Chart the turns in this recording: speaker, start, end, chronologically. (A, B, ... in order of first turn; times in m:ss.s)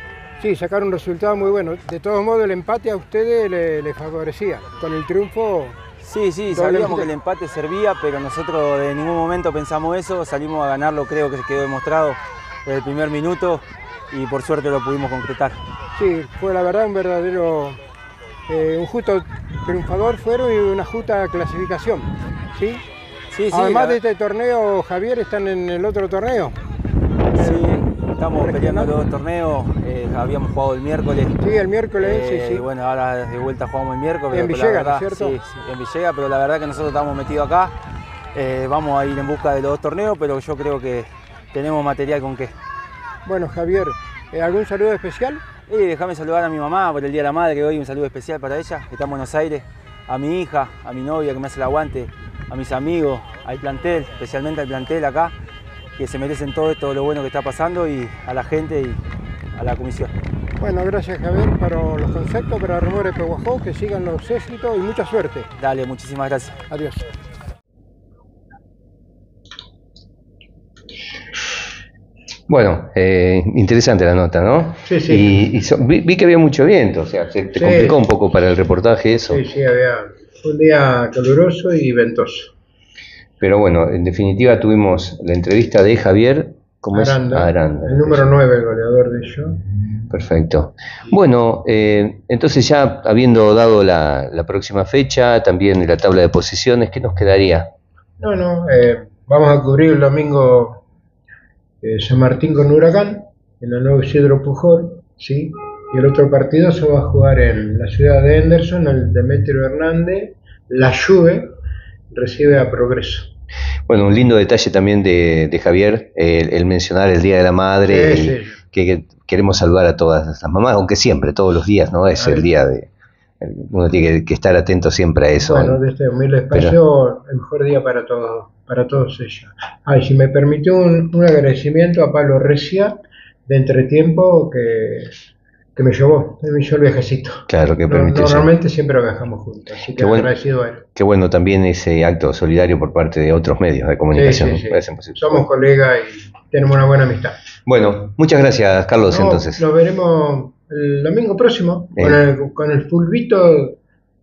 0:00.4-0:05.8 A
0:06.0-0:15.6 B
0:06.5-0:07.1 A
0:16.0-0:17.8 A
0:18.5-0:22.8 A
0:23.3-0:24.0 B
0:23.5-0:26.6 A
0:27.3-0:31.4 B
0:27.4-0:27.6 A
0:28.4-0:28.9 A
0:31.4-0:32.7 A
0:32.0-0:37.7 B
0:34.3-0:35.4 A
0:38.3-0:42.5 B
0:43.2-0:45.4 A
0:45.7-0:55.3 B
0:56.0-0:59.0 B
0:59.6-1:00.1 B
1:00.6-1:05.5 A
1:05.5-1:06.6 B
1:06.7-1:07.1 A
1:12.5-1:19.4 C
1:14.8-1:15.4 A
1:17.6-1:18.0 A
1:19.3-1:22.5 A
1:23.4-1:28.3 C
1:26.9-1:29.6 A
1:30.1-1:37.7 C
1:38.2-1:40.8 A
1:41.8-1:51.5 A
1:52.1-1:53.3 A
1:53.9-2:02.9 C
1:57.8-1:58.6 A
2:02.2-2:02.5 A
2:03.4-2:05.8 C
2:05.4-2:15.1 A
2:06.5-2:06.8 C
2:15.8-2:20.9 A
2:17.5-2:18.5 C
2:20.0-2:20.3 C
2:21.0-2:25.4 C
2:24.1-2:27.4 A
2:27.7-2:29.6 C
2:29.1-2:33.8 A